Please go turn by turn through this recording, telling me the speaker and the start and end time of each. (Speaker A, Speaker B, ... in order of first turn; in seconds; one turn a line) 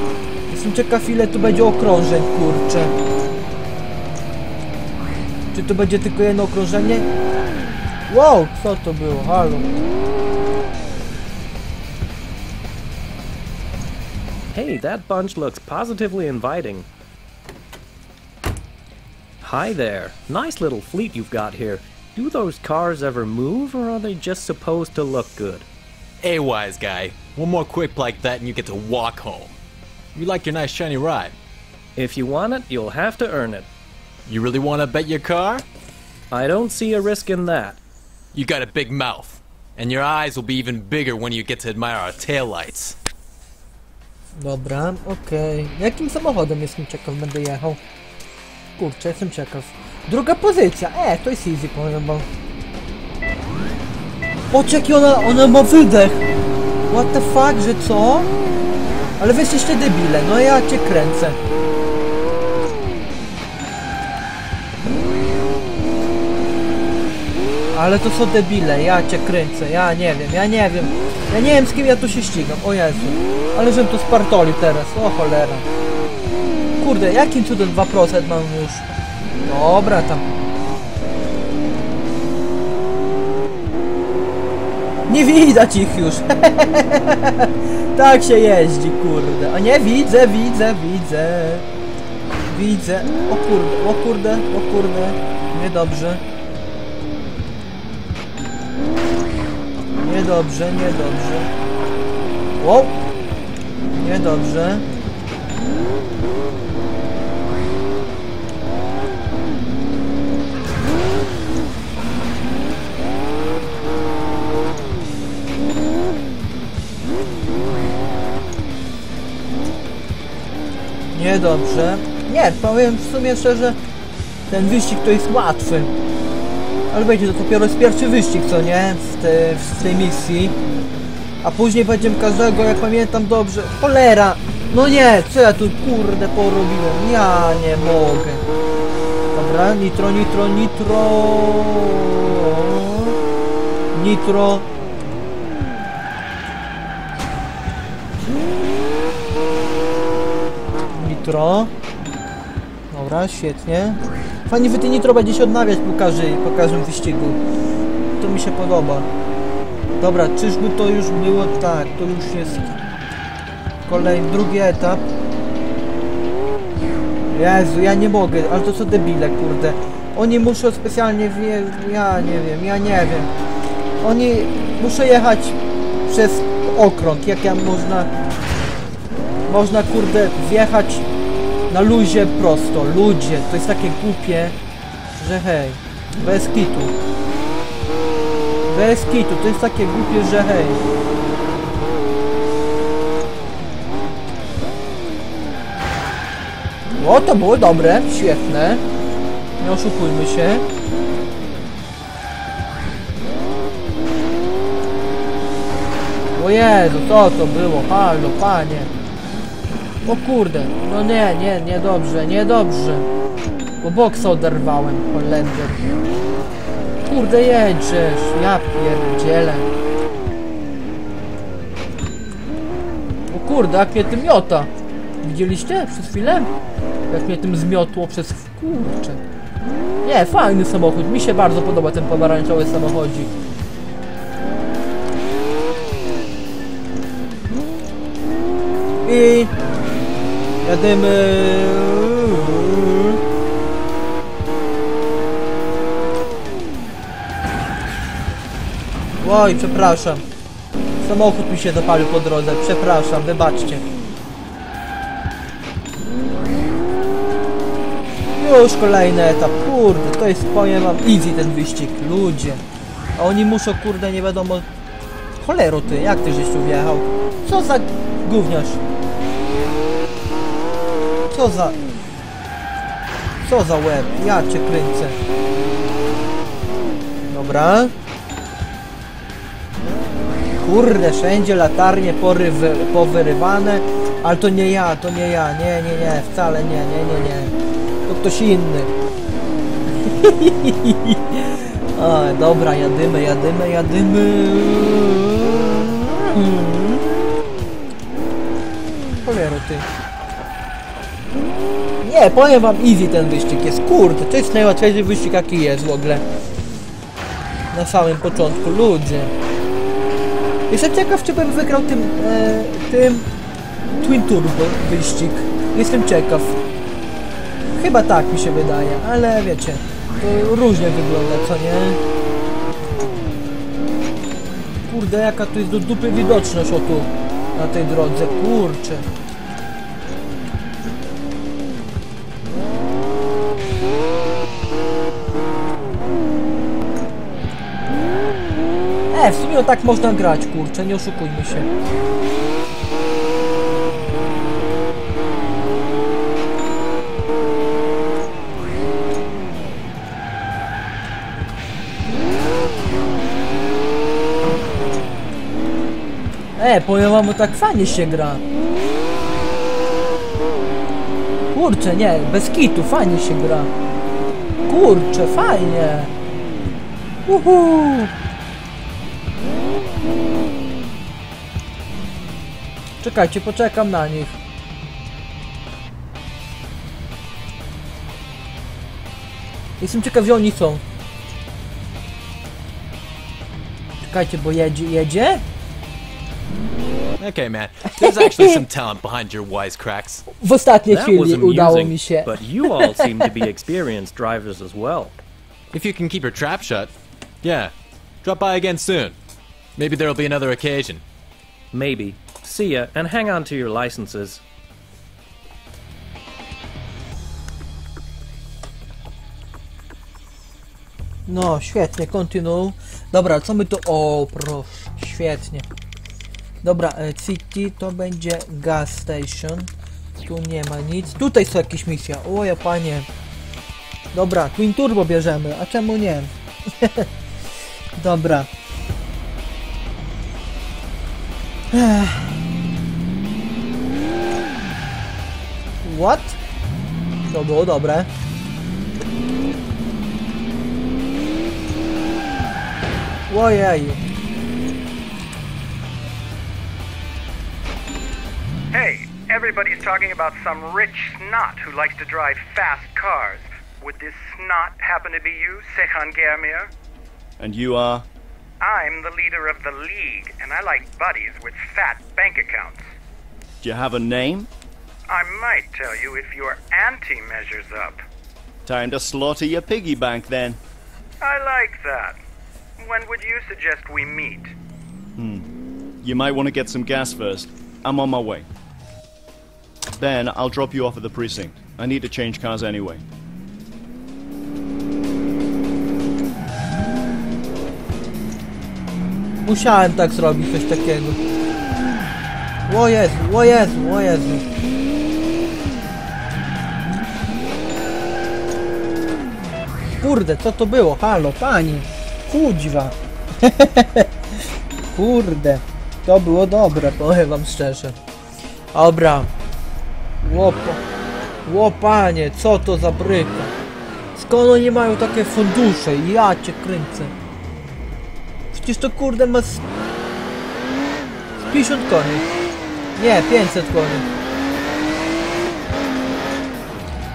Speaker A: 0.5-2.9
Speaker A: 5.5-7.1
Speaker A: 8.1-9.7
Speaker B: 14.5-16.9
Speaker B: 19.4-25.7
Speaker C: 26.2-29.6
Speaker C: 30.1-31.3
Speaker B: 31.9-33.7
Speaker C: 34.2-35.6
Speaker B: 36.3-37.8
Speaker C: 38.3-43.0
Speaker A: 44.4-47.8
Speaker A: 48.8-52.2
Speaker A: 54.5-56.3
Speaker A: 56.9-58.3
Speaker A: 59.2-61.4
Speaker A: 67.7-75.7
Speaker A: 76.8-78.8
Speaker A: 79.5-80.2
Speaker A: 85.1-91.6
Speaker A: 92.5-96.2
Speaker A: 100.0-101.5
Speaker A: 102.6-103.0
Speaker A: 103.9-104.8
Speaker A: 121.1-123.8
Speaker A: 124.5-125.9
Speaker A: 126.9-130.6
Speaker A: 131.4-138.4
Speaker A: 139.3-143.2
Speaker A: 143.9-144.7
Speaker A: 151.0-151.7
Speaker A: 152.9-157.4
Speaker A: 158.2-159.1
Speaker A: 160.0-162.7
Speaker A: 163.9-165.0
Speaker A: 167.3-173.3
Speaker A: 174.0-178.1
Speaker A: 179.5-181.1
Speaker A: 181.7-184.5
Speaker A: 185.2-186.9
Speaker A: 188.7-190.8
Speaker A: 196.9-198.8
Speaker A: 199.6-200.6
Speaker A: 206.3-208.9
Speaker A: 210.1-213.1
Speaker A: 213.8-215.8
Speaker A: 217.0-219.7
Speaker A: 223.3-224.7
Speaker A: 225.2-226.5
Speaker A: 227.1-229.2
Speaker A: 230.0-233.3
Speaker A: 239.0-239.5
Speaker A: 240.6-243.2
Speaker A: 249.2-250.2
Speaker A: 251.0-253.8
Speaker A: 258.4-262.6
Speaker A: 263.1-264.6
Speaker A: 265.4-268.8
Speaker A: 271.3-271.8
Speaker A: 273.4-275.2
Speaker A: 277.3-277.9
Speaker A: 280.6-287.5
Speaker A: 288.1-288.9
Speaker A: 290.0-297.3
Speaker A: 299.2-299.9
Speaker A: 302.0-306.2
Speaker A: 307.7-309.3
Speaker A: 310.7-313.2
Speaker A: 314.0-316.6
Speaker A: 317.8-322.0
Speaker A: 324.8-329.0
Speaker A: 339.1-341.7
Speaker A: 356.6-358.4
Speaker A: 361.5-363.7
Speaker A: 364.7-366.1
Speaker A: 367.3-368.1
Speaker A: 373.0-374.4
Speaker A: 379.8-380.8
Speaker A: 384.0-385.4
Speaker C: 387.2-390.2
Speaker A: 387.9-388.6
Speaker A: 390.3-393.3
Speaker B: 390.9-395.1
Speaker C: 395.7-396.9
Speaker C: 397.4-397.7
Speaker C: 398.2-399.1
Speaker C: 399.8-401.0
Speaker B: 401.7-404.4
Speaker A: 411.3-415.6
Speaker A: 416.6-419.7
Speaker A: 420.2-423.1
Speaker A: 424.1-427.1
Speaker A: 427.9-428.5
Speaker A: 431.7-432.4
Speaker A: 435.8-436.4
Speaker A: 437.3-438.1
Speaker A: 443.3-444.0
Speaker D: 448.7-456.7
Speaker E: 457.4-458.0
Speaker D: 458.6-462.9
Speaker E: 463.6-464.5
Speaker D: 465.1-468.0
Speaker E: 468.6-470.6
Speaker D: 471.2-472.2
Speaker D: 472.8-474.5
Speaker E: 475.2-475.4
Speaker E: 476.0-478.4
Speaker E: 480.0-483.0
Speaker A: 489.4-491.2
Speaker A: 492.7-494.4
Speaker A: 500.0-504.1
Speaker A: 504.9-507.9
Speaker A: 508.7-509.3
Speaker A: 510.2-510.8
Speaker A: 511.4-513.5
Speaker A: 514.1-517.1
Speaker A: 518.5-519.6
Speaker A: 521.5-522.2
Speaker A: 523.0-524.0